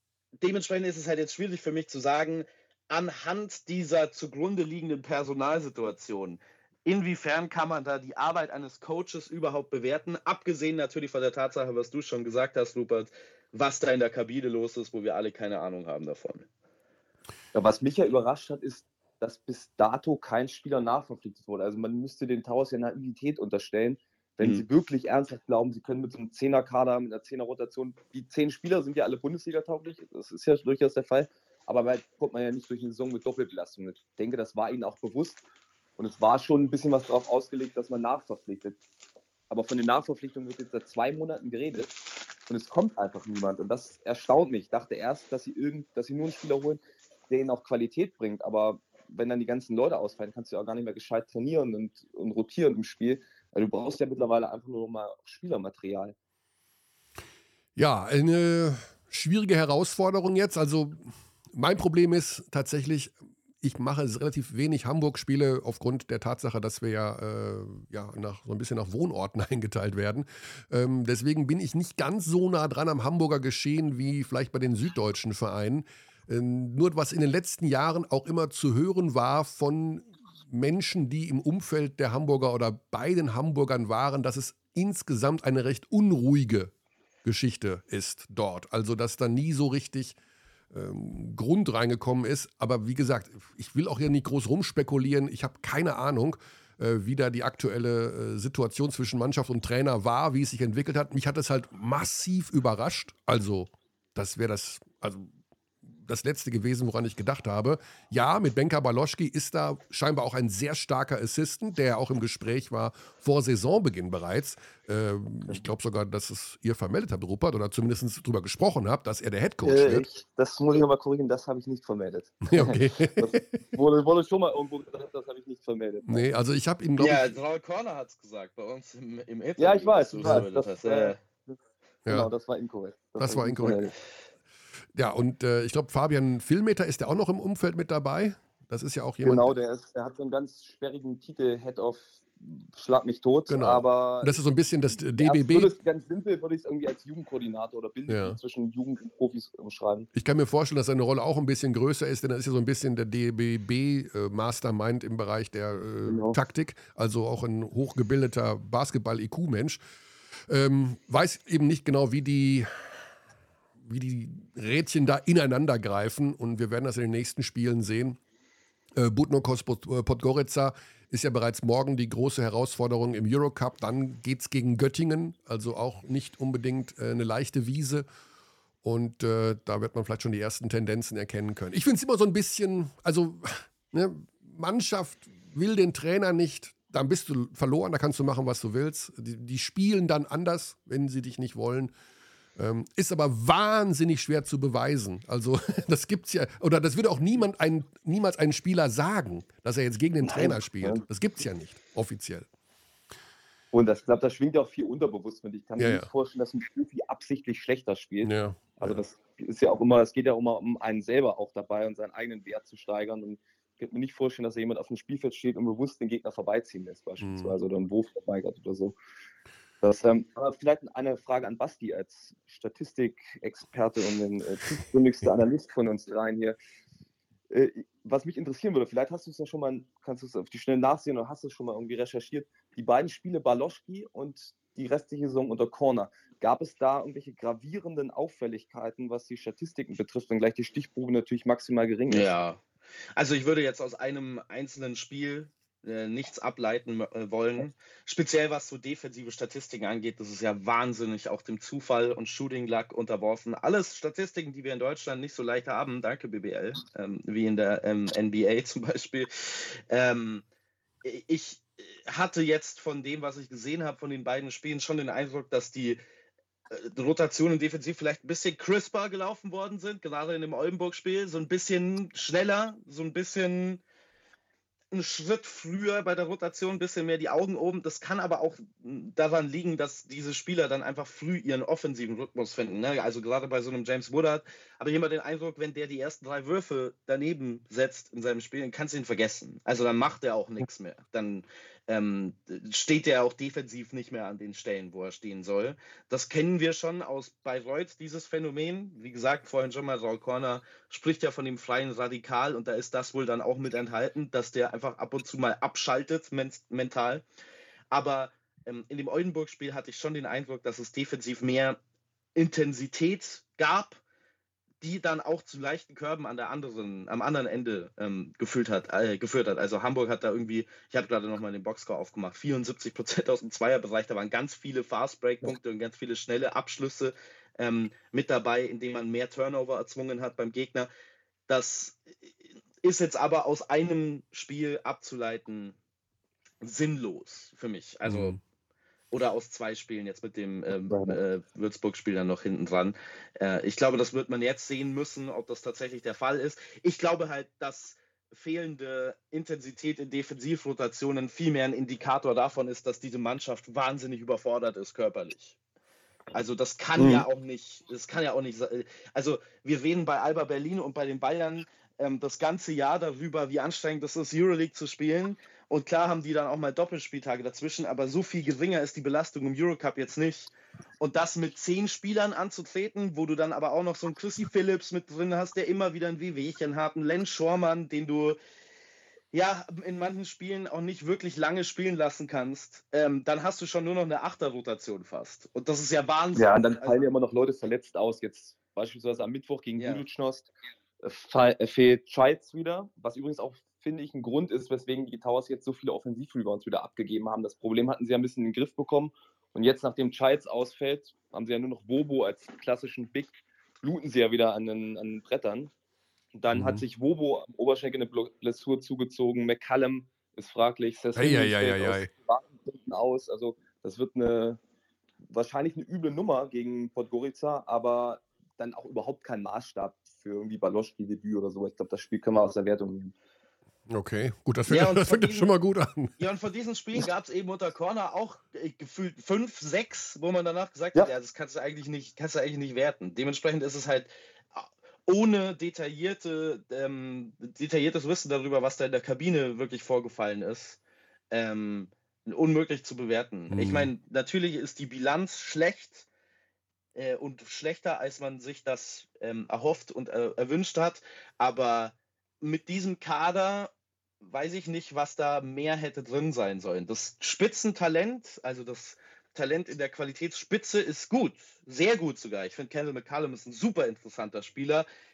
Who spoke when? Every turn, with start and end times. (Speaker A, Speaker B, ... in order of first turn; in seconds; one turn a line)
Speaker A: 0.4-16.5
Speaker B: 17.5-35.4
Speaker A: 24.4-24.7
Speaker B: 36.0-38.8
Speaker B: 39.5-56.1
Speaker C: 57.8-86.7
Speaker C: 87.2-90.2
Speaker C: 90.7-105.3
Speaker C: 105.8-120.1
Speaker B: 119.7-126.3
Speaker C: 122.5-123.4
Speaker C: 126.1-127.4
Speaker A: 127.0-131.2
Speaker B: 129.6-133.9
Speaker C: 133.2-133.9
Speaker C: 134.9-139.5
Speaker B: 139.2-144.4
Speaker C: 143.5-145.7
Speaker B: 145.0-150.1
Speaker C: 148.1-148.4
Speaker C: 150.1-159.8
Speaker B: 156.1-156.4
Speaker C: 160.5-163.1
Speaker C: 163.8-168.2
Speaker C: 169.0-178.1
Speaker C: 178.8-191.9
Speaker C: 192.6-202.5
Speaker B: 200.2-201.0
Speaker B: 203.7-219.0
Speaker C: 205.8-206.1
Speaker C: 208.2-209.0
Speaker C: 217.2-217.6
Speaker B: 219.8-226.6
Speaker B: 227.5-242.3
Speaker A: 242.1-242.6
Speaker A: 243.2-260.4
Speaker A: 261.0-266.0
Speaker A: 266.7-273.8
Speaker A: 274.9-307.2
Speaker A: 307.9-311.8
Speaker A: 312.4-314.0
Speaker A: 314.8-330.9
Speaker A: 331.5-335.8
Speaker A: 336.6-338.4
Speaker C: 338.1-338.4
Speaker A: 339.1-355.6
Speaker B: 340.9-341.2
Speaker A: 356.3-378.4
Speaker B: 357.0-357.3
Speaker A: 379.3-387.0
Speaker B: 386.4-390.5
Speaker A: 389.8-390.0
Speaker B: 391.0-405.7
Speaker B: 406.4-414.6
Speaker C: 406.5-406.8
Speaker C: 411.1-412.1
Speaker B: 415.2-423.1
Speaker C: 423.9-426.1
Speaker A: 424.7-425.5
Speaker A: 426.2-440.8
Speaker A: 441.3-446.1
Speaker C: 443.5-443.9
Speaker A: 446.9-464.9